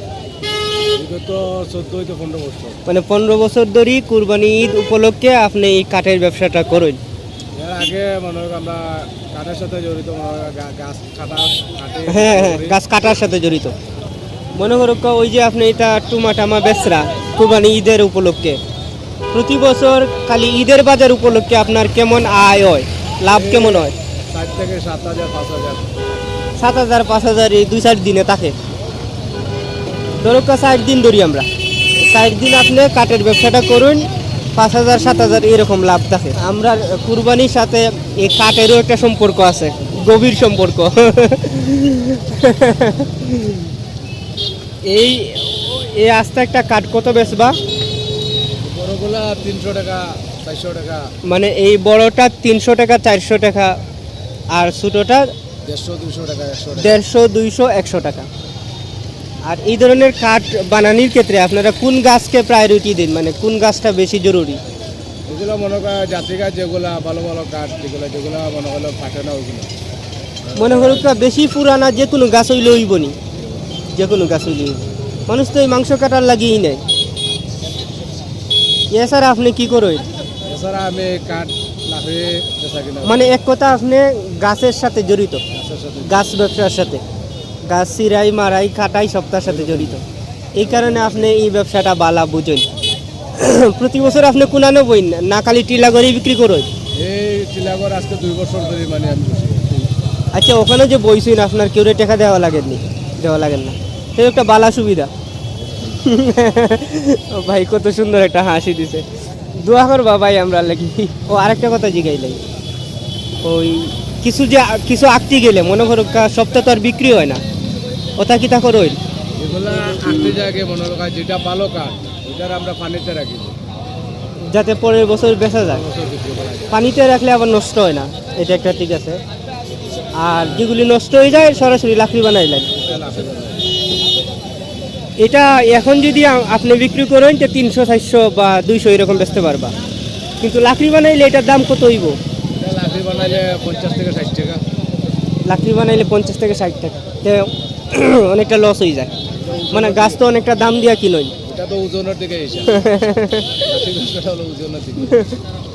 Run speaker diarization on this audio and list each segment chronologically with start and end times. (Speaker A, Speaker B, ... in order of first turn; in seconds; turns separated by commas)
Speaker A: 0.9-2.8, Speaker B: 2.9-7.0, Speaker A: 7.5-12.8, Speaker B: 12.1-13.7, Speaker B: 14.6-18.6, Speaker B: 19.3-23.9, Speaker A: 23.3-25.9, Speaker B: 26.6-28.5, Speaker B: 30.2-43.7, Speaker B: 44.9-47.6, Speaker A: 48.6-51.1, Speaker B: 51.2-53.7, Speaker B: 54.5-55.3, Speaker A: 55.6-57.0, Speaker B: 56.8-58.3, Speaker B: 59.5-64.6, Speaker A: 65.3-69.7, Speaker A: 70.5-71.1, Speaker B: 70.5-73.2, Speaker A: 73.3-73.6, Speaker B: 73.9-76.8, Speaker B: 78.9-80.0, Speaker A: 80.4-83.4, Speaker B: 83.0-85.4, Speaker A: 85.5-86.2, Speaker B: 86.0-87.0, Speaker B: 87.7-90.0, Speaker A: 89.4-90.0, Speaker B: 90.5-92.7, Speaker A: 90.6-91.3, Speaker B: 93.3-96.7, Speaker A: 97.0-99.9, Speaker B: 100.3-105.1, Speaker B: 105.8-109.0, Speaker B: 109.6-112.4, Speaker B: 113.4-117.4, Speaker B: 118.2-119.0, Speaker A: 119.4-123.6, Speaker B: 119.9-120.3, Speaker B: 124.4-125.8, Speaker A: 125.5-126.8, Speaker B: 126.7-129.2, Speaker B: 130.2-132.7, Speaker A: 132.7-133.6, Speaker B: 135.2-139.7, Speaker B: 140.4-142.2, Speaker A: 142.6-144.6, Speaker B: 145.5-149.1, Speaker A: 149.3-150.2, Speaker B: 149.7-151.3, Speaker A: 151.4-152.8, Speaker B: 152.7-153.6, Speaker A: 153.6-155.2